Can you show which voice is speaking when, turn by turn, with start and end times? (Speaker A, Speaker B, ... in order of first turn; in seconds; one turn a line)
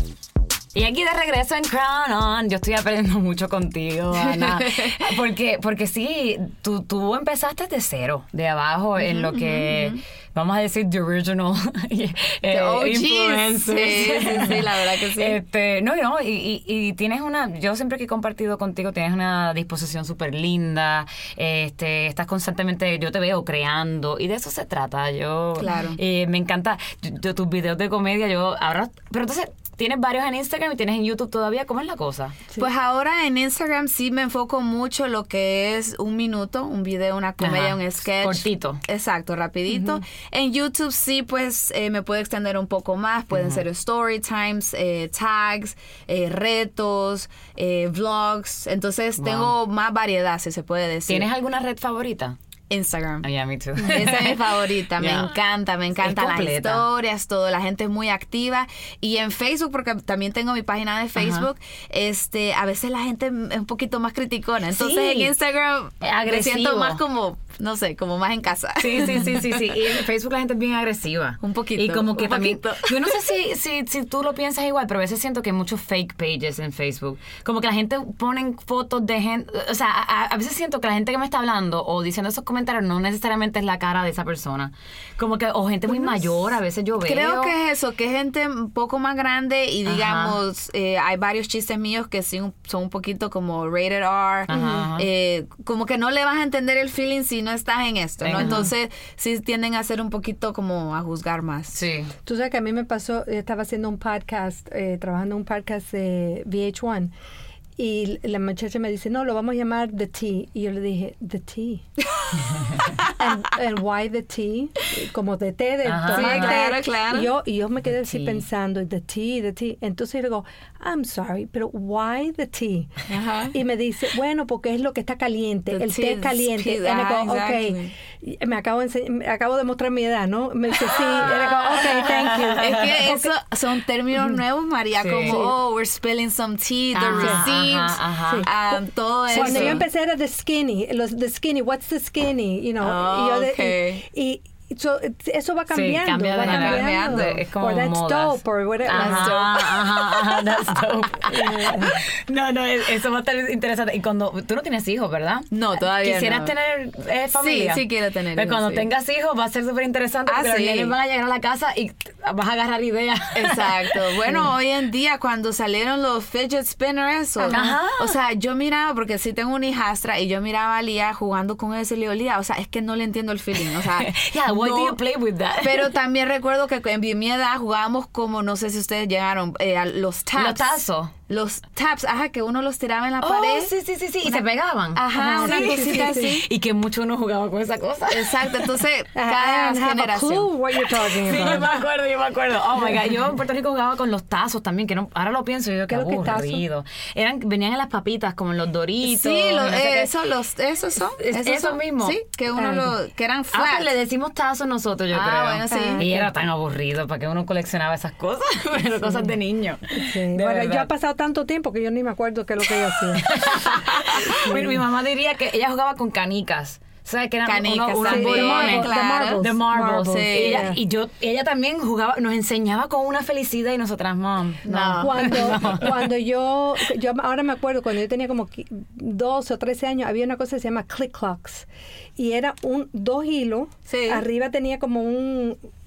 Speaker A: 0.7-32.4
Speaker B: 4.1-5.1
Speaker B: 9.0-10.0
Speaker B: 12.5-15.4
Speaker B: 25.6-26.0
Speaker B: 32.6-51.3
Speaker A: 37.4-38.8
Speaker C: 39.7-40.0
Speaker A: 43.3-43.6
Speaker A: 49.2-49.5
Speaker A: 51.1-52.4
Speaker B: 52.7-53.3
Speaker A: 53.2-55.3
Speaker B: 53.8-70.0
Speaker A: 56.0-56.8
Speaker A: 61.1-61.5
Speaker A: 64.7-65.3
Speaker A: 66.0-67.0
Speaker A: 68.8-87.5
Speaker B: 71.4-73.2
Speaker B: 85.9-86.2
Speaker B: 87.0-101.8
Speaker A: 89.8-90.3
Speaker A: 94.5-95.0
Speaker C: 94.5-94.8
Speaker A: 98.2-98.7
Speaker A: 101.7-102.1
Speaker C: 102.2-107.1
Speaker C: 107.8-111.8
Speaker B: 112.8-113.1
Speaker C: 113.2-122.9
Speaker A: 115.8-116.6
Speaker B: 116.1-117.3
Speaker A: 117.9-118.4
Speaker B: 123.1-123.5
Speaker C: 123.5-133.3
Speaker B: 125.7-127.9
Speaker B: 131.2-131.5
Speaker A: 131.3-132.9
Speaker B: 132.6-139.8
Speaker A: 135.0-135.4
Speaker C: 135.2-135.5
Speaker A: 136.9-138.5
Speaker C: 137.1-137.4
Speaker C: 138.2-149.3
Speaker A: 139.3-139.8
Speaker B: 142.8-144.0
Speaker A: 145.7-164.4
Speaker B: 146.4-147.4
Speaker B: 148.9-150.2
Speaker C: 151.3-152.0
Speaker B: 155.5-156.5
Speaker B: 157.3-158.8
Speaker B: 160.3-160.9
Speaker B: 163.3-175.0
Speaker C: 167.4-167.7
Speaker A: 167.5-168.1
Speaker A: 173.8-175.9
Speaker B: 175.6-183.7
Speaker A: 180.3-181.1
Speaker A: 183.2-188.8
Speaker B: 184.2-186.4
Speaker C: 185.1-186.3
Speaker B: 188.1-190.5
Speaker C: 189.1-191.7
Speaker A: 190.9-200.1
Speaker C: 195.9-196.6
Speaker B: 199.0-203.9
Speaker A: 201.2-202.2
Speaker C: 202.5-202.9
Speaker A: 203.5-210.9
Speaker B: 205.1-206.1
Speaker C: 205.7-206.3
Speaker C: 209.9-213.3
Speaker A: 213.1-226.1
Speaker C: 214.3-214.8
Speaker B: 217.4-220.7
Speaker C: 218.0-220.8
Speaker B: 224.7-225.6
Speaker C: 225.0-235.6
Speaker B: 233.9-234.2